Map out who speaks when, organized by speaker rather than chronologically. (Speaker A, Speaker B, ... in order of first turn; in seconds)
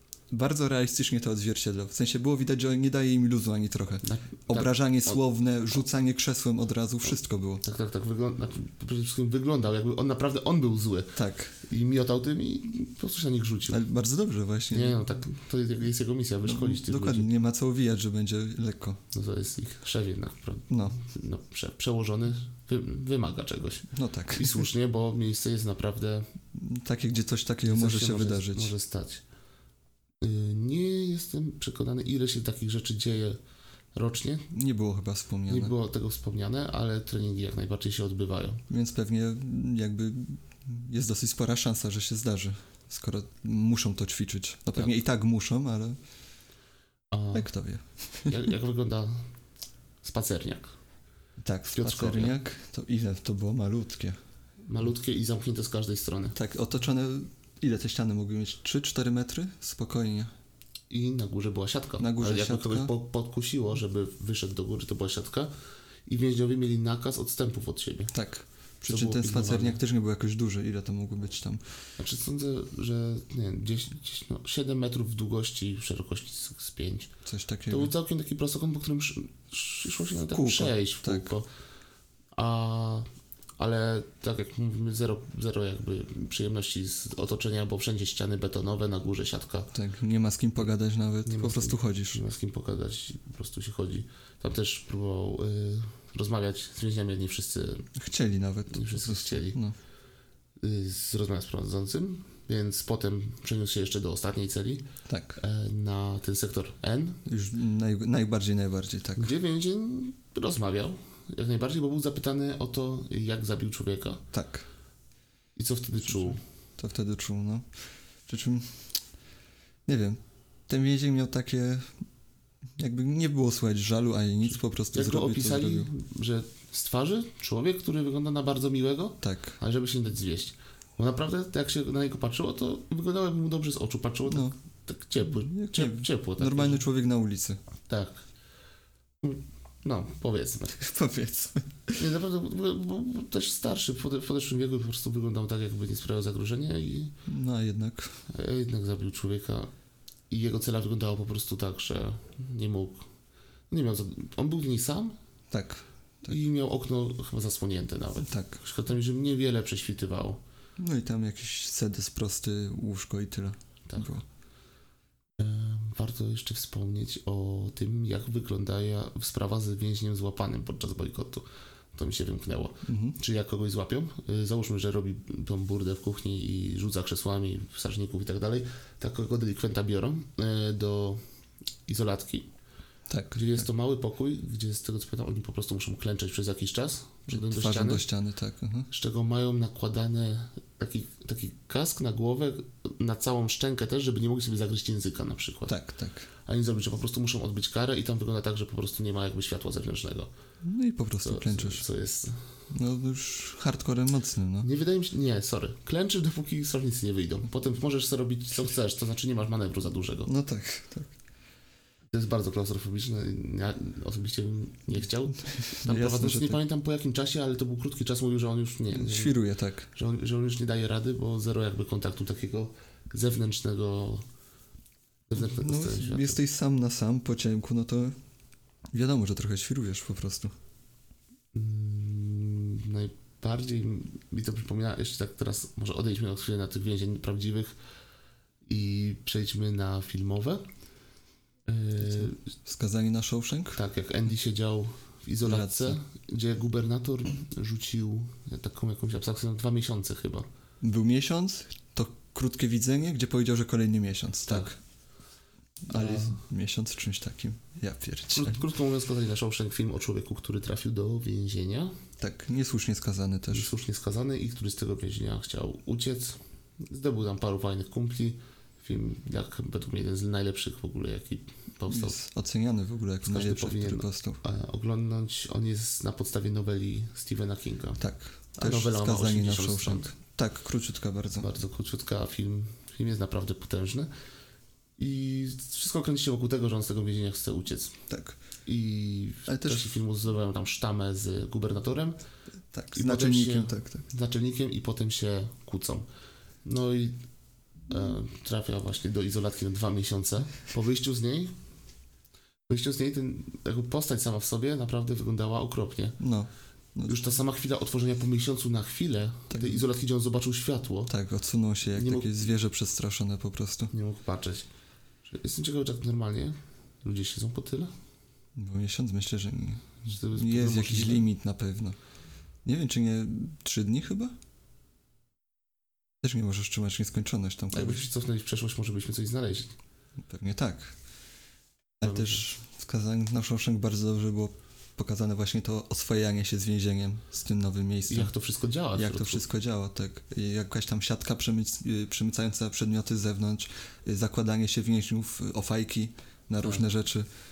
Speaker A: 0.3-7.6, 11.1-11.6, 13.7-15.0, 16.4-19.0, 20.7-21.0, 23.9-24.7, 26.5-28.7, 34.5-35.8, 38.7-46.0, 47.3-48.4, 51.4-54.2, 56.3-60.3, 62.0-62.9, 68.1-71.6, 77.2-77.9, 80.3-81.3, 89.7-92.2, 98.0-99.7, 105.1-105.4, 107.2-109.3, 114.3-114.7, 116.0-117.7, 118.3-118.9, 119.9-122.0, 122.8-125.9, 129.2-129.6, 134.3-134.5, 135.2-137.6, 140.8-142.0, 147.3-148.2, 155.5-156.3, 158.3-158.6, 160.8-164.2, 172.8-173.2, 183.1-183.7, 187.3-188.9, 195.7-196.3, 200.6-201.8, 202.7-204.7, 210.2-211.1, 215.4-216.6, 218.9-219.9, 225.3-228.2, 228.9-230.5, 242.0-243.8, 245.4-246.0, 250.8-254.8, 255.9-258.6, 262.2-263.7, 271.9-274.4, 278.0-281.5, 288.1-288.4, 289.5-289.9, 292.7-294.1, 306.2-307.3, 309.5-309.9, 311.1-313.9, 318.6-322.0, 322.6-324.3, 326.2-328.0, 330.3-330.9, 332.0-338.3, 338.9-347.2
Speaker B: 4.0-5.2, 7.6-13.8, 14.7-17.3, 19.1-26.3, 27.6-29.2, 30.2-33.4, 33.9-34.5, 35.5-38.6, 47.1-47.5, 48.2-49.3, 50.0-50.7, 51.7-52.3, 54.6-56.4, 60.9-65.5, 66.0-68.1, 68.8-69.8, 72.0-77.1, 77.7-81.5, 82.3-89.7, 91.2-97.9, 98.7-99.6, 100.6-104.8, 105.4-107.2, 109.2-114.2, 115.5-116.4, 124.9-136.8, 137.9-138.2, 139.2-140.8, 142.0-147.1, 148.3-149.7, 150.3-153.0, 153.7-155.2, 156.3-160.4, 165.4-181.2, 181.8-182.5, 183.3-188.0, 188.9-195.7, 196.4-200.3, 201.2-202.3, 204.6-210.3, 212.1-219.3, 219.9-224.2, 225.3-226.4, 231.5-237.7, 238.7-240.6, 241.7-242.4, 243.7-250.5, 255.9-256.4, 258.3-261.9, 263.5-272.2, 273.2-278.0, 278.6-280.1, 281.4-284.1, 285.0-288.0, 288.6-292.2, 292.9-296.1, 296.6-297.1, 297.9-301.5, 302.7-306.2, 307.1-311.1, 311.9-312.3, 313.9-314.6, 315.2-317.9, 320.1-321.2, 327.7-329.7, 332.0-332.4, 338.1-339.4